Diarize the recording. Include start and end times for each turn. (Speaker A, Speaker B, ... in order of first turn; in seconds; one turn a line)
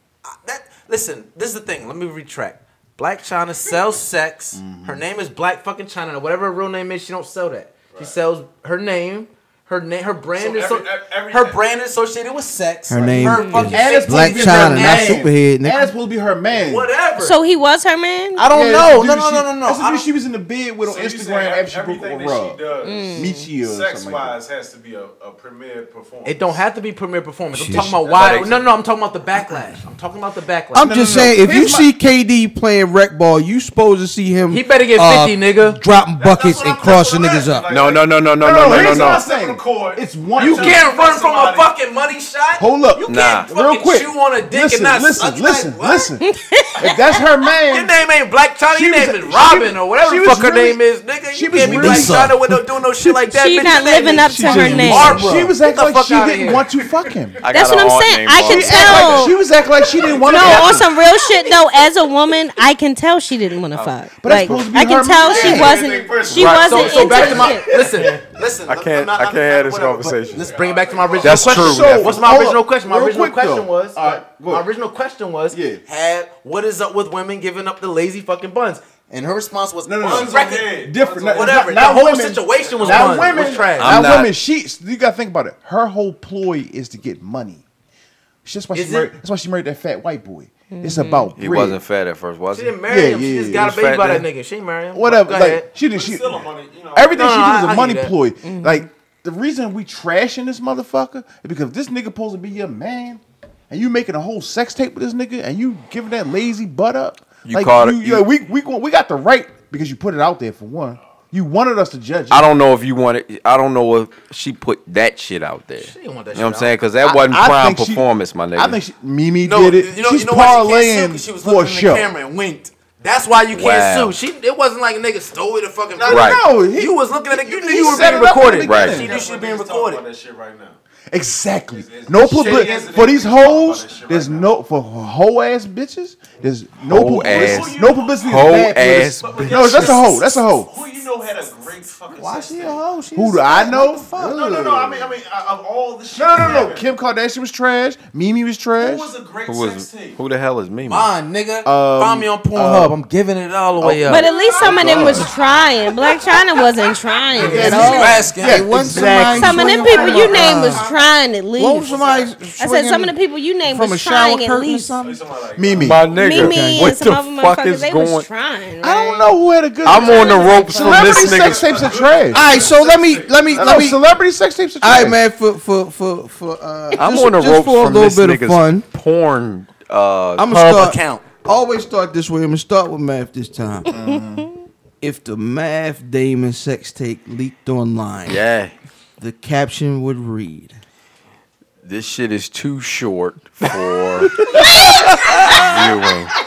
Speaker A: 0.2-15.3
Speaker B: 4.5-5.0
Speaker C: 10.3-11.7
Speaker D: 12.9-15.9
Speaker E: 13.2-13.7
Speaker B: 13.7-16.9
Speaker A: 16.5-17.4
Speaker E: 17.1-18.5
Speaker A: 18.4-20.0
Speaker B: 18.5-22.6
Speaker C: 20.8-26.6
Speaker E: 22.8-23.5
Speaker B: 23.1-24.4
Speaker A: 26.2-30.9
Speaker D: 27.5-27.9
Speaker F: 28.0-28.5
Speaker C: 28.0-28.7
Speaker D: 30.7-37.7
Speaker B: 30.8-31.9
Speaker A: 34.5-35.8
Speaker C: 36.2-41.7
Speaker F: 37.7-39.2
Speaker B: 38.4-40.9
Speaker A: 40.4-46.1
Speaker B: 42.6-46.2
Speaker F: 43.0-43.5
Speaker E: 46.2-47.3
Speaker B: 46.8-47.9
Speaker A: 47.7-56.6
Speaker B: 48.7-52.3
Speaker D: 51.5-53.1
Speaker E: 53.3-55.3
Speaker D: 54.0-55.2
Speaker B: 54.9-57.4
Speaker F: 57.4-59.3
Speaker E: 57.5-59.4
Speaker B: 58.4-60.9
Speaker C: 60.0-60.4
Speaker E: 60.1-67.7
Speaker B: 64.2-65.8
Speaker C: 65.2-68.1
Speaker A: 65.3-65.8
Speaker F: 66.2-67.4
Speaker A: 66.4-84.2
Speaker F: 68.7-70.6
Speaker C: 70.3-72.4
Speaker F: 71.2-72.2
Speaker B: 71.4-74.7
Speaker B: 75.5-75.8
Speaker B: 79.8-87.6
Speaker C: 80.0-83.8
Speaker F: 83.8-84.3
Speaker B: 88.4-91.8
Speaker A: 88.7-89.1
Speaker E: 90.7-91.3
Speaker F: 91.4-92.8
Speaker A: 92.5-95.7
Speaker B: 92.9-93.7
Speaker F: 93.5-94.2
Speaker B: 94.9-112.5
Speaker C: 95.8-97.4
Speaker A: 97.1-98.1
Speaker E: 98.4-98.8
Speaker F: 107.5-108.3
Speaker F: 112.3-118.8
Speaker A: 115.8-116.7
Speaker B: 117.0-122.1
Speaker A: 119.4-130.0
Speaker F: 123.5-124.1
Speaker C: 126.0-126.3
Speaker B: 126.0-129.2
Speaker F: 126.1-126.4
Speaker C: 127.7-130.8
Speaker F: 128.6-129.1
Speaker B: 131.1-140.7
Speaker C: 131.7-134.5
Speaker A: 132.2-133.0
Speaker F: 136.9-139.5
Speaker C: 137.2-142.8
Speaker A: 142.1-144.4
Speaker B: 143.1-145.1
Speaker C: 144.2-146.9
Speaker B: 146.1-149.1
Speaker C: 148.8-150.2
Speaker F: 149.5-151.1
Speaker A: 150.9-154.3
Speaker B: 151.6-153.0
Speaker B: 153.8-155.3
Speaker E: 154.1-158.3
Speaker C: 154.3-155.6
Speaker A: 157.3-159.1
Speaker B: 157.4-160.3
Speaker D: 157.6-160.8
Speaker E: 159.3-162.0
Speaker A: 159.9-160.9
Speaker D: 161.6-165.2
Speaker C: 161.8-162.4
Speaker E: 162.6-165.0
Speaker C: 165.0-166.4
Speaker B: 165.5-166.1
Speaker F: 165.8-168.3
Speaker E: 166.1-169.3
Speaker D: 166.3-166.9
Speaker B: 168.8-172.5
Speaker C: 169.0-174.1
Speaker F: 169.8-171.9
Speaker E: 170.1-171.0
Speaker D: 172.3-174.0
Speaker B: 173.5-175.2
Speaker D: 174.8-178.8
Speaker F: 177.0-180.5
Speaker D: 180.3-183.9
Speaker A: 180.5-181.2
Speaker B: 183.9-184.5
Speaker D: 185.0-188.4
Speaker F: 188.3-188.7
Speaker D: 189.2-190.8
Speaker F: 191.8-196.3
Speaker E: 194.5-195.8